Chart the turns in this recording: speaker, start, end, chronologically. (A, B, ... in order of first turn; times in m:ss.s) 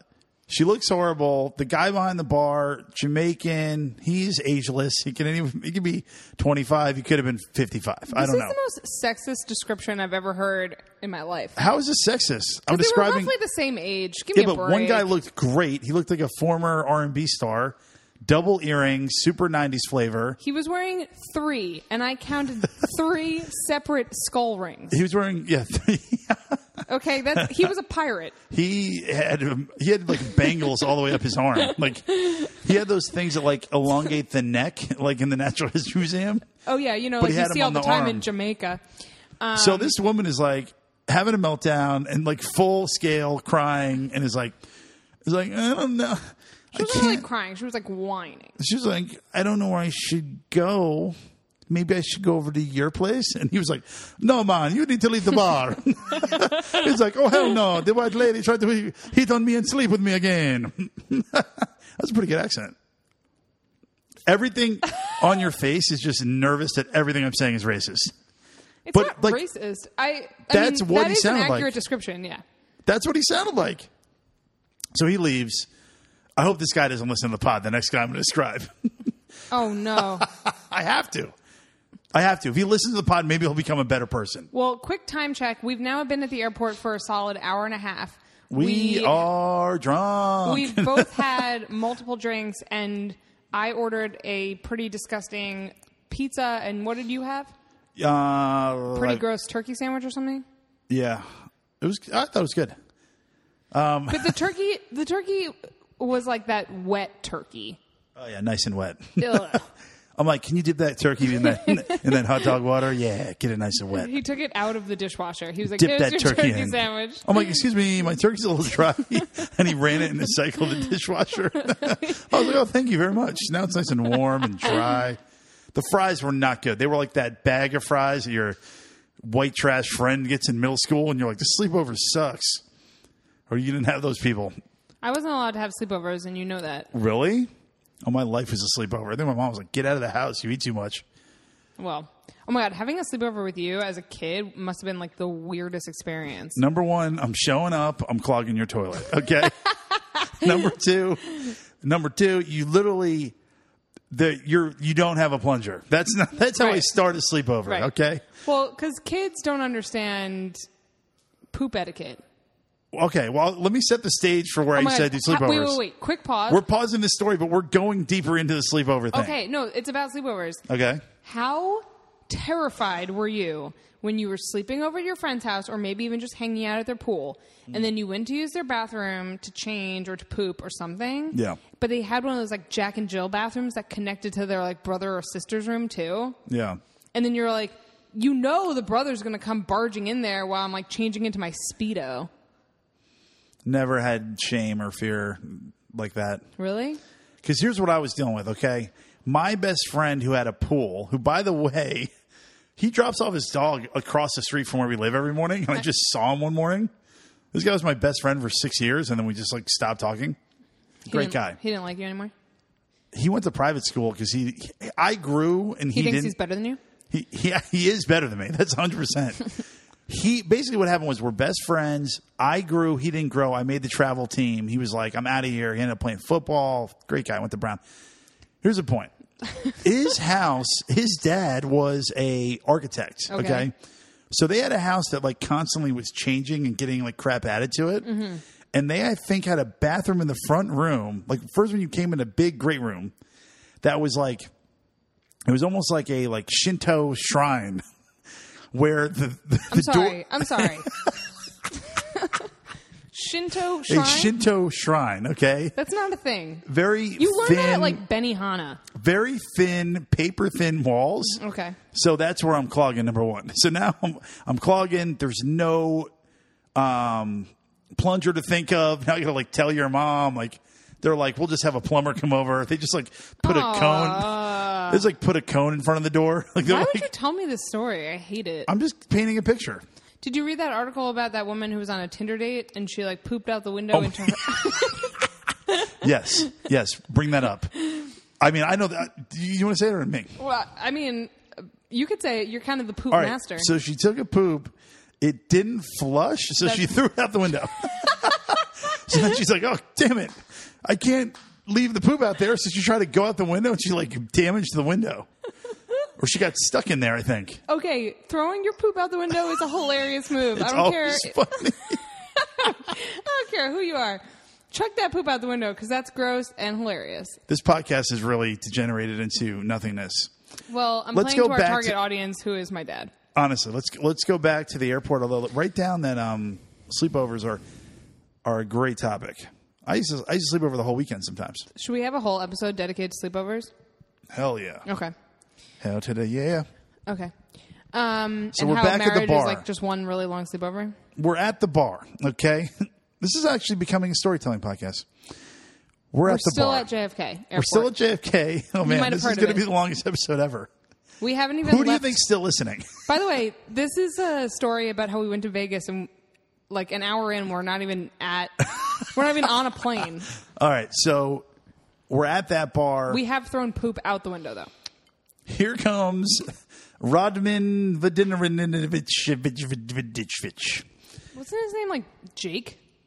0:00.5-0:08.5 A
0:08.1-0:11.6 B
0:11.6-0:13.3 A
0:12.7-0:15.1 B
0:14.3-0:20.4 A
0:20.4-0:25.0 B
0:24.9-0:26.8 A
0:26.9-0:28.4 B
0:27.3-0:27.6 A
0:28.5-0:36.5 A
0:32.2-0:32.6 B
0:36.6-0:38.8 B
0:37.2-0:38.2 A
0:39.4-0:39.9 B
0:39.6-0:44.6 A
0:45.2-0:47.2 A
0:46.7-0:48.6 B
0:48.6-0:51.1 A
0:51.7-1:02.8 A
1:04.2-1:08.1 A
1:08.8-1:12.4 B
1:08.9-1:09.4 A
1:10.5-1:11.7 A
1:12.8-1:13.9 A
1:14.9-1:15.7 A
1:16.4-1:19.1 A
1:19.5-1:20.3 B
1:19.9-1:21.3 A
1:22.1-1:24.5 A
1:24.5-1:29.3 B
1:28.5-1:31.3 A
1:30.4-1:37.5 B
1:38.0-1:39.2 A
1:38.9-1:40.4 B
1:40.9-1:41.3 A
1:41.8-1:42.7 A
1:43.7-1:44.4 A
1:44.1-1:47.8 B
1:48.2-1:49.6 A
1:49.2-1:49.6 B
1:50.2-1:54.1 A
1:51.7-1:52.0 B
1:53.9-1:57.5 B
1:55.6-2:05.2 A
2:02.0-2:02.2 B
2:05.7-2:08.6 A
2:09.2-2:12.6 A
2:13.5-2:14.5 A
2:15.0-2:16.9 B
2:16.9-2:17.5 A
2:18.0-2:21.0 A
2:21.8-2:26.6 B
2:26.6-2:33.3 A
2:34.1-2:38.2 A
2:36.6-2:36.8 B
2:38.4-2:40.6 B
2:41.5-2:42.2 B
2:42.9-2:45.8 A
2:44.7-2:46.6 B
2:46.5-2:49.3 A
2:49.1-2:50.6 B
2:50.7-2:51.0 A
2:51.2-3:06.4 B
3:01.3-3:01.6 A
3:06.4-3:06.8 A
3:07.1-3:12.3 B
3:13.6-3:16.4 A
3:16.6-3:17.0 B
3:17.4-3:22.1 A
3:22.8-3:26.9 A
3:27.5-3:30.4 A
3:31.0-3:32.3 B
3:31.1-3:31.6 A
3:33.1-3:36.3 A
3:35.9-3:36.8 B
3:37.1-3:39.5 A
3:40.1-3:47.8 A
3:48.6-3:49.1 A
3:49.7-3:53.7 A
3:53.3-3:53.7 B
3:54.3-3:58.1 A
3:58.0-3:58.4 B
3:58.7-4:03.1 A
4:03.8-4:04.5 A
4:05.4-4:07.8 A
4:08.7-4:11.1 A
4:09.7-4:10.9 B
4:11.9-4:12.5 B
4:13.1-4:14.3 B
4:13.8-4:15.8 A
4:15.8-4:18.8 B
4:16.6-4:18.0 A
4:18.9-4:21.4 A
4:21.4-4:21.8 B
4:21.9-4:26.1 A
4:26.7-4:37.1 A
4:33.4-4:35.0 B
4:36.6-4:38.7 B
4:38.7-4:39.8 A
4:40.2-4:45.1 B
4:43.9-4:44.9 A
4:45.9-4:50.3 A
4:50.4-4:53.7 B
4:53.1-5:05.3 A
5:06.2-5:07.6 A
5:07.7-5:17.4 B
5:10.5-5:12.0 A
5:17.5-5:20.3 A
5:20.7-5:23.1 B
5:21.1-5:22.0 A
5:23.3-5:27.6 A
5:28.4-5:31.7 A
5:31.7-5:33.7 B
5:34.3-5:34.8 A
5:34.8-5:35.1 B
5:35.8-5:36.6 A
5:37.1-5:37.3 B
5:37.9-5:41.0 B
5:38.5-5:39.6 A
5:41.2-5:45.1 A
5:46.1-5:46.9 A
5:46.2-5:47.9 B
5:47.5-5:50.7 A
5:48.8-5:49.6 B
5:51.2-5:52.2 B
5:51.6-5:52.9 A
5:53.1-5:56.1 B
5:56.7-6:00.3 B
6:00.6-6:01.4 A
6:02.1-6:03.2 A
6:03.1-6:04.7 B
6:05.4-6:10.8 A
6:11.3-6:12.8 B